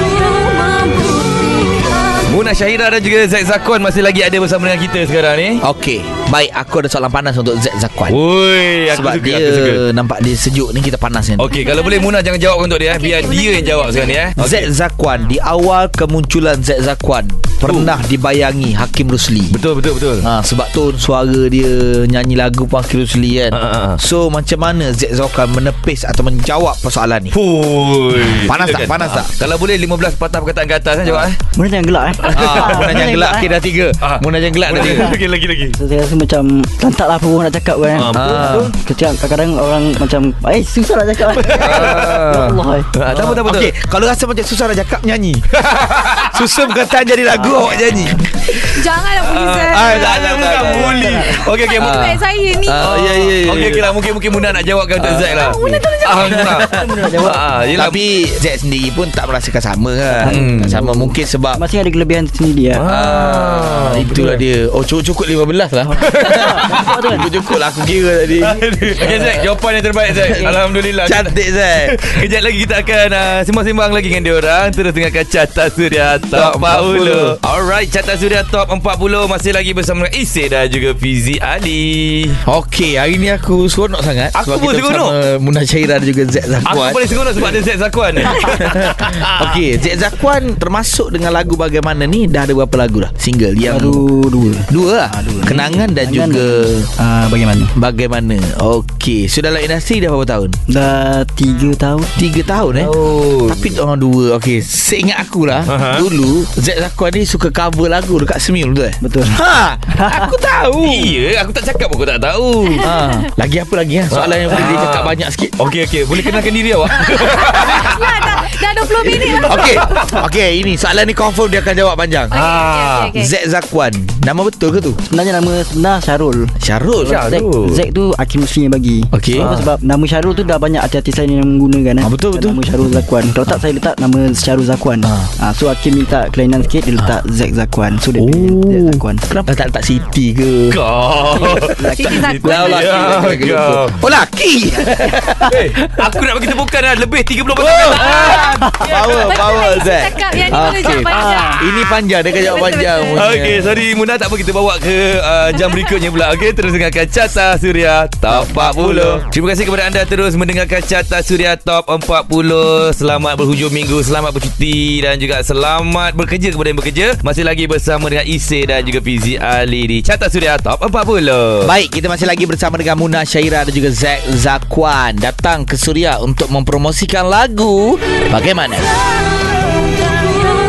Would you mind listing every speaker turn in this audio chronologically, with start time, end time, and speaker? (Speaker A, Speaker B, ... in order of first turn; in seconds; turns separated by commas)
Speaker A: 2.3-5.6, Speaker B: 5.6-8.2, Speaker A: 8.1-9.8, Speaker B: 8.9-11.5, Speaker A: 11.4-14.7, Speaker C: 11.5-12.1, Speaker C: 12.9-14.3, Speaker B: 14.4-19.6, Speaker A: 17.6-18.0, Speaker A: 19.5-20.3, Speaker B: 20.2-27.3, Speaker A: 23.5-24.0, Speaker A: 27.3-31.4, Speaker B: 28.4-29.3, Speaker D: 31.5-33.5, Speaker A: 32.2-33.1, Speaker B: 32.3-35.1, Speaker A: 34.0-35.8, Speaker D: 34.7-35.2, Speaker D: 35.8-42.9, Speaker A: 37.9-38.6, Speaker B: 38.1-38.7, Speaker B: 41.4-42.5, Speaker A: 41.4-43.7, Speaker B: 43.1-45.4, Speaker A: 45.5-46.5, Speaker B: 46.2-48.6, Speaker A: 47.5-48.1, Speaker C: 48.5-52.8, Speaker A: 49.2-52.0, Speaker B: 49.7-51.1, Speaker D: 50.8-51.4, Speaker B: 51.8-53.9, Speaker A: 52.8-58.0, Speaker C: 54.2-54.6, Speaker B: 55.0-56.8, Speaker C: 55.2-56.8, Speaker D: 56.7-57.7, Speaker B: 57.7-61.6, Speaker D: 60.2-62.9, Speaker A: 60.2-60.8, Speaker A: 62.7-64.4, Speaker B: 62.8-69.4, Speaker D: 65.8-67.3, Speaker A: 66.0-67.1, Speaker A: 68.4-82.4, Speaker B: 70.1-72.1, Speaker B: 76.3-77.4, Speaker B: 82.4-87.5, Speaker A: 84.3-85.1, Speaker A: 86.6-89.6, Speaker B: 88.5-94.0, Speaker D: 93.7-97.7, Speaker B: 94.7-96.9, Speaker B: 97.7-100.6, Speaker D: 100.7-102.1, Speaker B: 102.2-102.9, Speaker A: 102.7-103.8, Speaker B: 103.4-111.1, Speaker A: 105.7-106.1, Speaker D: 109.0-109.4, Speaker D: 109.9-110.3, Speaker A: 110.8-112.9, Speaker C: 112.7-113.3, Speaker B: 112.8-115.6, Speaker A: 114.1-118.4, Speaker C: 116.1-120.0, Speaker B: 117.6-117.9, Speaker B: 119.0-122.3, Speaker A: 119.1-120.2, Speaker A: 122.3-123.1, Speaker C: 122.3-123.3, Speaker B: 123.1-125.0, Speaker D: 125.1-139.2, Speaker B: 126.6-127.2, Speaker A: 127.0-127.8, Speaker B: 129.1-129.5, Speaker A: 129.3-129.7, Speaker B: 132.0-132.6, Speaker B: 135.0-135.3, Speaker B: 138.2-140.8, Speaker A: 140.7-144.0, Speaker D: 141.3-142.4, Speaker C: 141.9-143.2, Speaker B: 142.4-145.6, Speaker A: 145.4-149.6, Speaker B: 147.6-153.8, Speaker C: 147.9-153.2, Speaker D: 148.6-148.9, Speaker D: 150.8-151.6, Speaker A: 153.1-171.7, Speaker C: 155.5-156.0, Speaker B: 158.3-159.2, Speaker B: 171.6-178.9